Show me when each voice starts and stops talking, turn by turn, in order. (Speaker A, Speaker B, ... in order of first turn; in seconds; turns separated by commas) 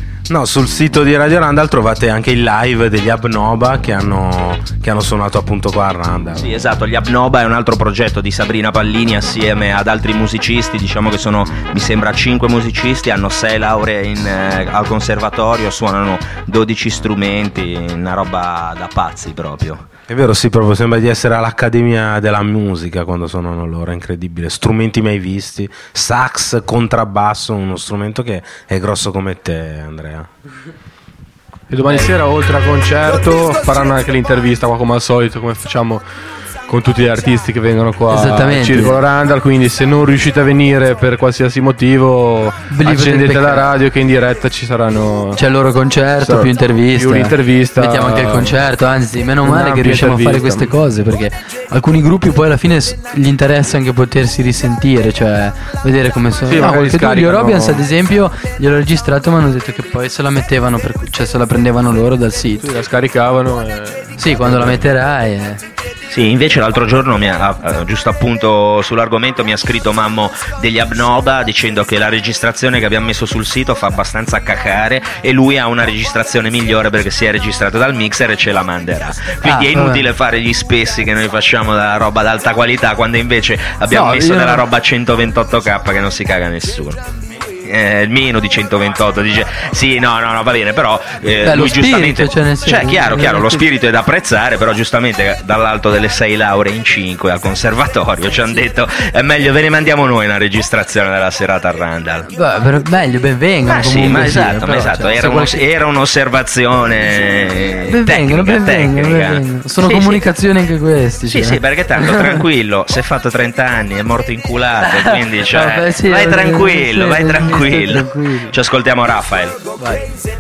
Speaker A: 0.3-6.5, Speaker B: 6.4-19.9, Speaker A: 20.1-30.3, Speaker C: 31.7-36.0, Speaker C: 36.7-45.4, Speaker D: 38.1-39.0, Speaker D: 42.7-43.7, Speaker D: 45.4-62.7, Speaker C: 46.2-48.6, Speaker C: 49.4-50.7, Speaker C: 56.5-57.9, Speaker C: 62.6-64.9, Speaker D: 64.2-65.6, Speaker B: 66.1-87.0, Speaker D: 79.5-80.0, Speaker D: 83.9-84.6, Speaker B: 87.6-102.3, Speaker D: 91.4-93.7, Speaker D: 102.3-105.6, Speaker B: 103.7-110.2, Speaker D: 107.9-112.4, Speaker B: 111.3-119.6, Speaker D: 114.9-118.5